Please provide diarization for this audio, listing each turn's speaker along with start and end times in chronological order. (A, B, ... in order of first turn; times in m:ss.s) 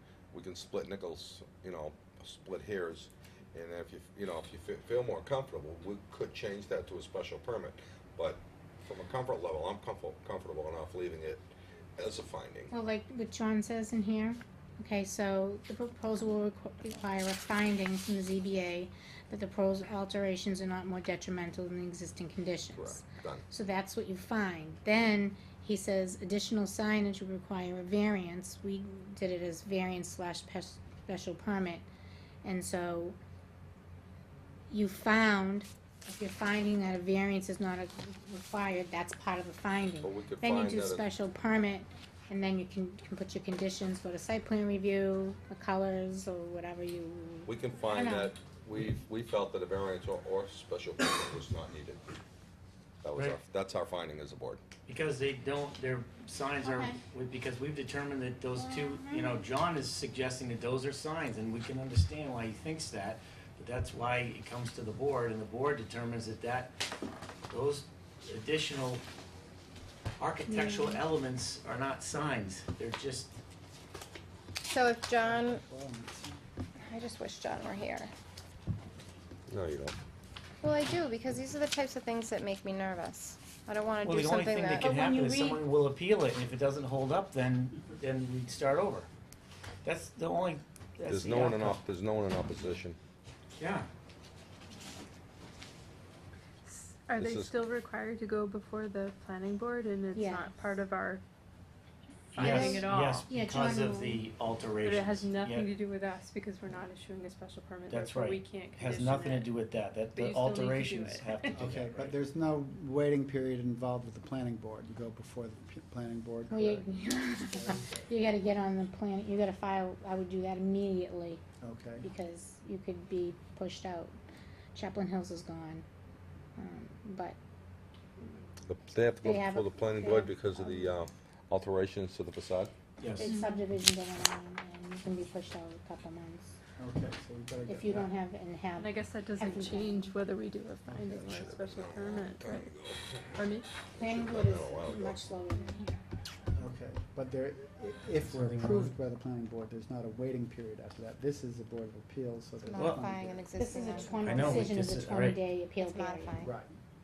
0:00.3-0:12.7 A
0:12.7-0:31.9 B
0:22.8-0:23.4 A
0:32.4-0:33.2 B
0:34.7-0:48.4 B
0:40.0-0:41.0 A
0:47.5-0:52.0 A
0:53.0-0:54.6 A
0:53.1-0:53.4 C
0:54.9-1:06.7 C
0:56.6-0:57.0 B
0:58.6-0:59.4 B
1:07.5-1:09.0 C
1:10.2-1:13.3 C
1:10.5-1:11.0 B
1:14.6-1:15.6 D
1:15.2-1:16.4 E
1:16.9-1:18.1 D
1:19.5-1:20.0 A
1:20.6-1:24.9 D
1:24.0-1:29.1 C
1:24.8-1:25.6 B
1:29.8-1:31.8 C
1:31.1-1:33.0 A
1:33.6-1:33.9 C
1:36.6-1:41.2 F
1:37.2-1:37.5 A
1:40.1-1:40.6 B
1:42.3-1:43.3 F
1:42.4-1:44.2 B
1:42.4-1:45.7 C
1:44.8-1:49.5 F
1:47.9-1:52.2 C
1:50.2-1:51.5 F
1:51.6-1:56.9 E
1:56.5-2:01.4 B
1:57.6-1:58.0 E
2:01.6-2:02.1 E
2:02.0-2:04.1 B
2:04.7-2:05.8 B
2:06.6-2:07.4 B
2:08.6-2:12.7 A
2:09.2-2:11.0 B
2:13.0-2:13.3 C
2:13.2-2:16.6 B
2:13.3-2:13.6 F
2:16.8-2:18.1 E
2:17.7-2:20.2 B
2:18.8-2:22.8 F
2:20.9-2:23.4 A
2:23.4-2:23.7 F
2:24.0-2:26.0 B
2:24.0-2:25.3 A
2:26.6-2:33.5 E
2:28.3-2:28.9 C
2:32.6-2:34.5 D
2:33.6-2:36.4 B
2:34.2-2:35.4 C
2:35.8-2:36.5 D
2:36.4-2:36.7 E